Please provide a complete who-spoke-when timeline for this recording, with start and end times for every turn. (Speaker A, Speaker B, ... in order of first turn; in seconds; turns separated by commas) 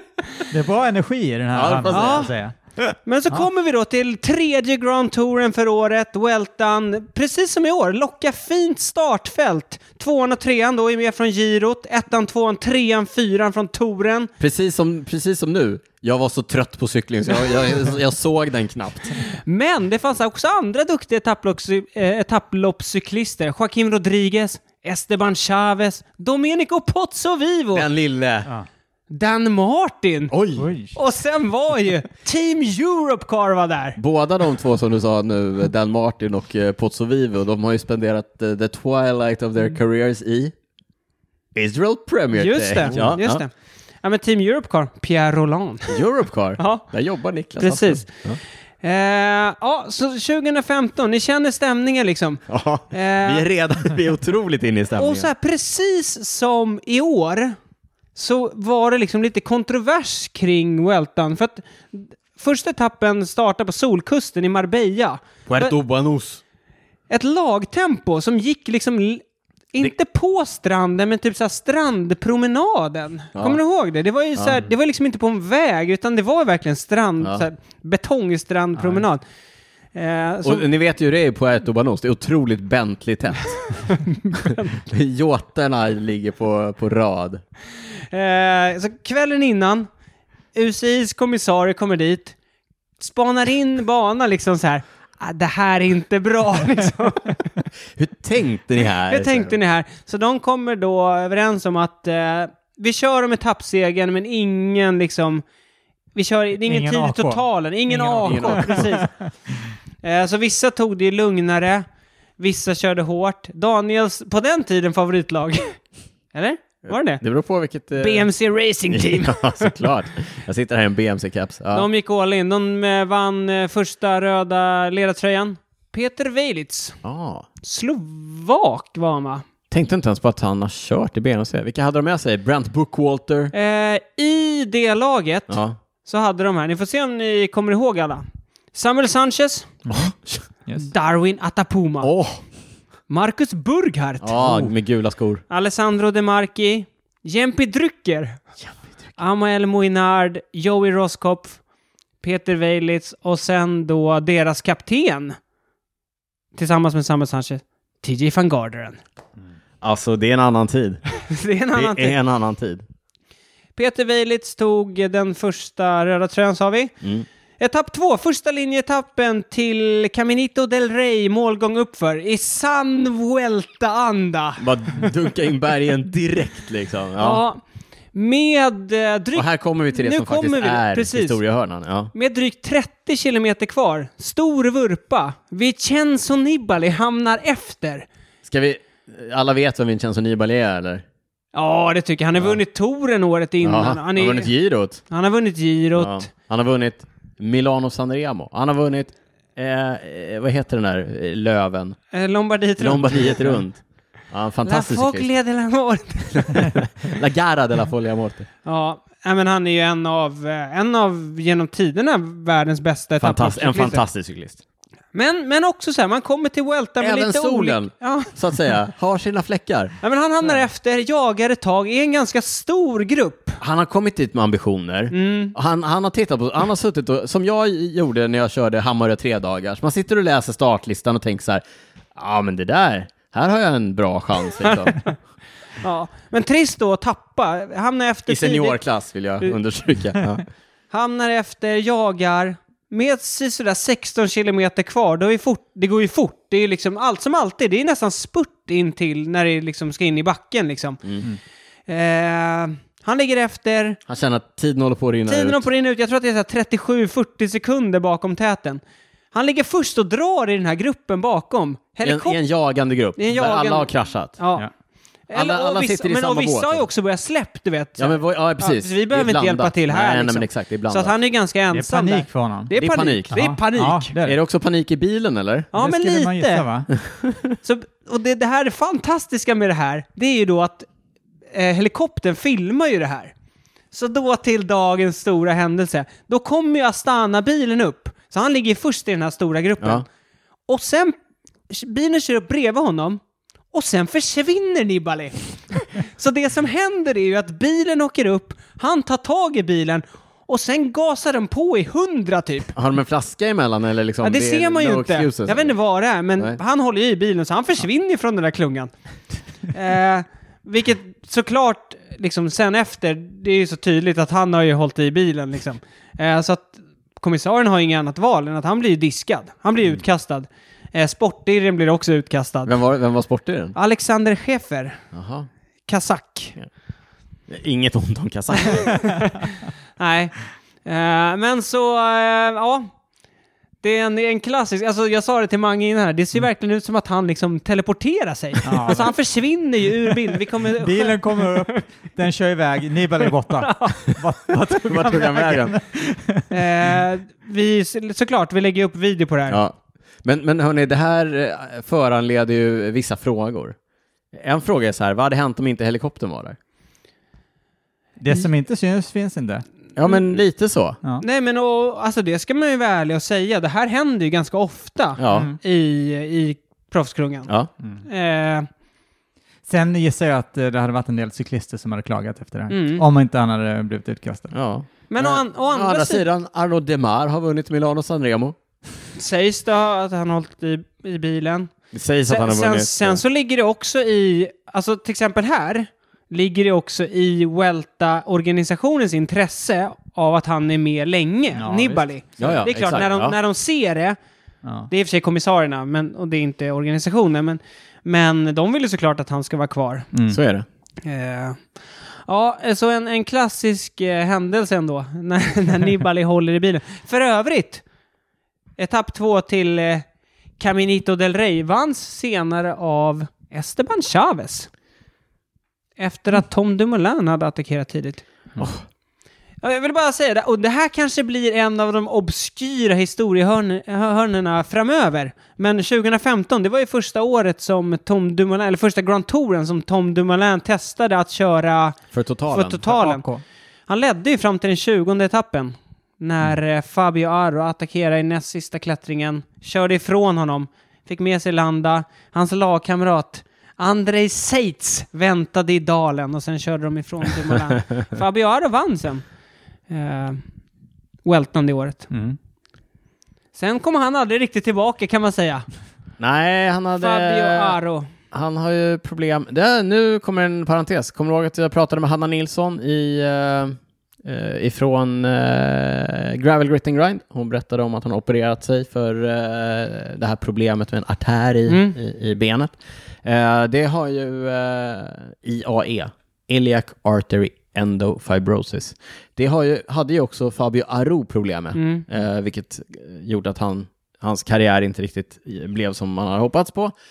Speaker A: 0.5-2.5, Speaker B: 1.6-2.3, Speaker C: 1.9-2.3, Speaker C: 3.0-14.3, Speaker B: 14.4-19.2, Speaker C: 19.3-27.9, Speaker B: 27.7-28.5, Speaker C: 29.1-30.3, Speaker B: 30.3-30.7, Speaker A: 30.6-31.0, Speaker C: 30.9-34.0, Speaker B: 34.0-40.5, Speaker B: 41.5-43.4, Speaker C: 42.4-43.5, Speaker C: 44.0-46.0, Speaker B: 45.9-48.4, Speaker C: 46.6-46.9, Speaker C: 47.6-48.2, Speaker C: 48.8-53.5, Speaker B: 52.5-55.3, Speaker C: 55.0-57.6, Speaker C: 58.2-65.8, Speaker B: 65.5-66.4, Speaker C: 67.1-79.2, Speaker B: 73.3-73.6, Speaker B: 74.4-74.7, Speaker B: 77.2-77.5, Speaker A: 78.8-79.0, Speaker C: 79.9-80.6, Speaker B: 80.4-83.8, Speaker C: 84.0-84.7, Speaker B: 84.4-87.4, Speaker C: 88.1-89.9, Speaker C: 90.5-92.3, Speaker C: 93.0-97.4, Speaker B: 98.0-99.5, Speaker C: 99.1-105.4, Speaker C: 106.2-109.1, Speaker A: 106.7-109.7, Speaker B: 108.2-109.0, Speaker C: 110.0-111.9, Speaker C: 112.4-115.8, Speaker C: 116.3-117.2, Speaker B: 116.9-118.3, Speaker C: 118.0-119.7, Speaker B: 118.9-121.9, Speaker C: 121.7-127.0, Speaker B: 127.0-127.5, Speaker C: 127.6-129.4, Speaker B: 129.7-133.5, Speaker C: 133.5-139.7, Speaker B: 135.5-135.8, Speaker B: 139.9-140.4, Speaker C: 140.8-142.1, Speaker B: 142.0-142.4, Speaker C: 143.1-144.7, Speaker B: 144.2-145.4, Speaker C: 145.5-148.4, Speaker C: 149.2-151.6, Speaker C: 152.2-155.4, Speaker C: 156.6-159.0, Speaker B: 159.8-161.0, Speaker C: 161.2-162.2, Speaker B: 161.7-162.8, Speaker C: 163.8-166.9, Speaker C: 167.6-175.1, Speaker B: 174.6-177.4, Speaker C: 177.2-177.6, Speaker C: 178.1-181.4, Speaker B: 179.3-182.1, Speaker C: 182.1-188.1, Speaker B: 188.4-191.1, Speaker C: 191.5-194.5, Speaker B: 193.6-195.0, Speaker C: 195.1-196.3, Speaker B: 196.0-202.0, Speaker C: 202.1-203.6, Speaker B: 202.8-205.3, Speaker C: 204.7-206.7, Speaker B: 206.3-208.5, Speaker C: 208.7-214.0, Speaker B: 213.2-214.6, Speaker C: 215.1-218.3, Speaker B: 217.0-219.9, Speaker C: 220.0-223.6, Speaker B: 223.6-231.6, Speaker C: 225.1-225.6, Speaker B: 232.2-235.1, Speaker C: 235.8-238.8, Speaker B: 238.3-240.4, Speaker C: 240.9-251.0, Speaker C: 251.9-254.0, Speaker B: 254.1-255.6, Speaker C: 255.3-258.8, Speaker C: 259.3-262.4, Speaker B: 262.0-264.4, Speaker C: 263.2-264.7, Speaker C: 265.3-274.1, Speaker B: 265.3-266.8, Speaker B: 268.0-271.1, Speaker A: 271.7-272.7, Speaker B: 272.8-273.3, Speaker A: 273.3-274.4, Speaker B: 274.2-275.7, Speaker C: 275.7-276.7, Speaker A: 275.8-276.9, Speaker B: 276.9-277.5, Speaker C: 277.6-280.9, Speaker C: 281.5-283.3, Speaker C: 283.9-290.1, Speaker C: 290.7-291.2, Speaker C: 291.7-293.2, Speaker C: 293.7-302.7, Speaker B: 302.7-305.8, Speaker C: 304.2-308.9, Speaker C: 309.7-322.7, Speaker B: 322.6-323.8, Speaker C: 323.8-325.0, Speaker B: 325.1-325.5, Speaker C: 325.9-326.6, Speaker B: 327.5-329.0, Speaker C: 328.6-329.5, Speaker C: 330.0-332.9, Speaker C: 333.8-341.8, Speaker A: 338.6-339.1, Speaker A: 340.8-347.0, Speaker C: 343.6-344.0, Speaker B: 344.5-345.8, Speaker C: 346.5-349.6, Speaker B: 349.5-353.8, Speaker B: 354.3-356.6, Speaker A: 358.2-359.6, Speaker B: 360.0-361.0, Speaker C: 361.2-367.5, Speaker B: 365.2-365.5, Speaker A: 365.3-365.6, Speaker C: 368.1-368.7, Speaker A: 369.7-374.5, Speaker C: 372.7-373.0, Speaker B: 374.5-378.6, Speaker C: 375.1-376.3, Speaker C: 379.2-381.7, Speaker B: 381.9-383.2, Speaker C: 382.3-394.2, Speaker A: 391.6-392.6, Speaker B: 392.4-393.4, Speaker A: 394.6-394.9, Speaker C: 394.9-400.1, Speaker A: 400.1-400.4, Speaker B: 400.3-400.6, Speaker C: 401.0-401.7, Speaker C: 402.3-407.8, Speaker C: 408.8-410.1, Speaker C: 410.6-414.7, Speaker C: 416.0-418.2, Speaker B: 418.6-418.8, Speaker C: 419.6-433.3, Speaker B: 432.1-432.8, Speaker A: 432.8-433.4, Speaker C: 433.9-449.3, Speaker C: 449.9-450.4, Speaker C: 451.2-452.1, Speaker A: 452.1-452.4, Speaker C: 453.6-455.7, Speaker B: 456.2-457.8, Speaker C: 457.0-458.1, Speaker B: 458.3-486.9, Speaker C: 471.7-471.9, Speaker C: 481.8-482.1